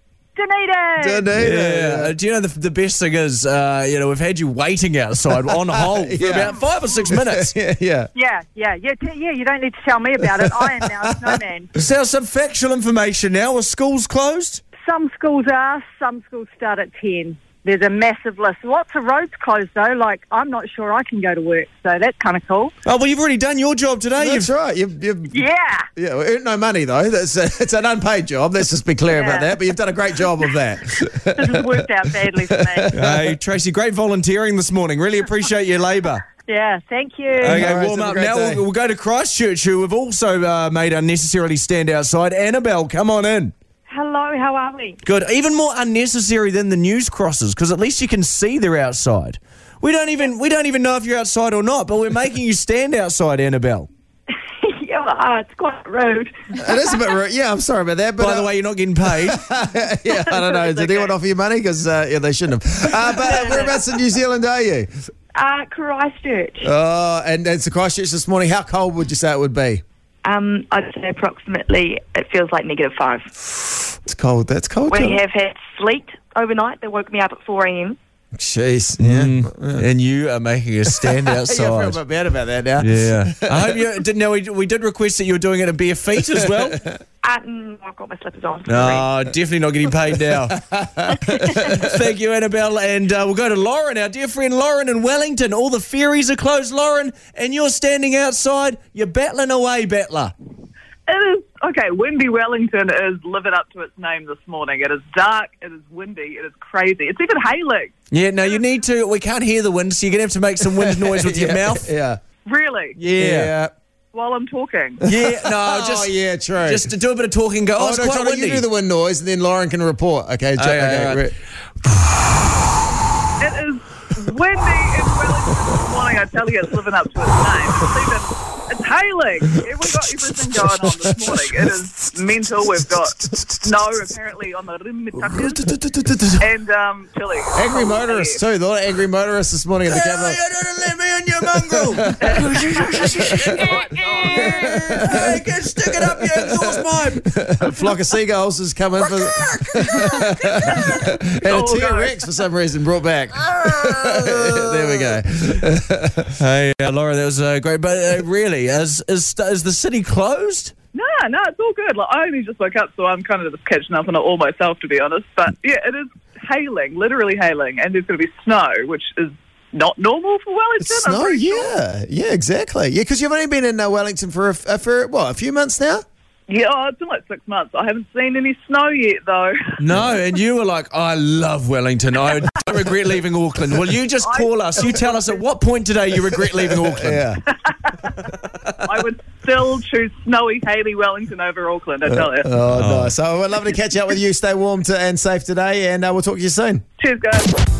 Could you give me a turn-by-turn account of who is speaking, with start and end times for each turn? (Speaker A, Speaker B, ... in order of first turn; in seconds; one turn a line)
Speaker A: 0.4-1.3
Speaker B: 1.0-2.1
Speaker C: 1.4-7.5
Speaker B: 5.5-8.1
Speaker A: 8.2-11.7
Speaker B: 10.4-11.4
Speaker C: 11.8-14.6
Speaker A: 14.8-22.7
Speaker C: 22.9-24.5
Speaker B: 24.2-25.4
Speaker A: 25.3-25.9
Speaker B: 26.0-31.9
Speaker A: 29.1-29.5
Speaker A: 31.4-33.0
Speaker B: 32.5-33.3
Speaker C: 32.9-36.2
Speaker A: 36.5-37.6
Speaker C: 37.4-43.5
Speaker B: 37.4-38.6
Speaker A: 43.9-45.0
Speaker C: 45.0-53.9
Speaker D: 54.7-56.8
Speaker B: 56.6-58.5
Speaker C: 58.2-59.4
Speaker B: 59.2-64.9
Speaker D: 60.3-61.0
Speaker D: 63.2-63.8
Speaker D: 65.4-66.7
Speaker B: 66.6-69.8
Speaker D: 70.2-73.3
Speaker B: 74.0-75.2
Speaker D: 74.9-78.0
Speaker B: 78.3-79.9
Speaker C: 79.0-82.0
Speaker B: 81.0-83.9
Speaker C: 82.8-86.8
Speaker B: 86.3-86.9
Speaker D: 87.2-89.1
Speaker C: 88.7-100.3
Speaker B: 90.3-91.8
Speaker E: 101.1-107.9
Speaker C: 108.1-111.9
Speaker B: 110.8-112.2
Speaker E: 112.5-113.0
Speaker C: 113.0-113.5
Speaker B: 113.2-113.7
Speaker E: 114.1-115.0
Speaker C: 115.0-118.7
Speaker B: 115.1-116.9
Speaker B: 117.8-121.3
Speaker C: 120.6-121.3
Speaker E: 123.4-135.6
Speaker B: 133.2-134.1
Speaker B: 135.7-136.2
Speaker E: 136.4-138.4
Speaker B: 137.6-140.4
Speaker C: 139.8-148.0
Speaker B: 141.7-145.4
Speaker E: 142.5-143.1
Speaker E: 143.6-144.5
Speaker B: 146.2-156.3
Speaker C: 149.0-151.0
Speaker E: 151.4-152.2
Speaker C: 153.4-155.2
Speaker C: 156.4-160.7
Speaker E: 160.9-171.7
Speaker B: 170.8-176.0
Speaker E: 176.5-179.8
Speaker C: 179.8-187.3
Speaker E: 184.2-185.4
Speaker B: 186.3-187.4
Speaker E: 187.5-188.2
Speaker E: 188.8-192.5
Speaker B: 192.1-196.8
Speaker C: 192.7-193.2
Speaker E: 197.0-197.6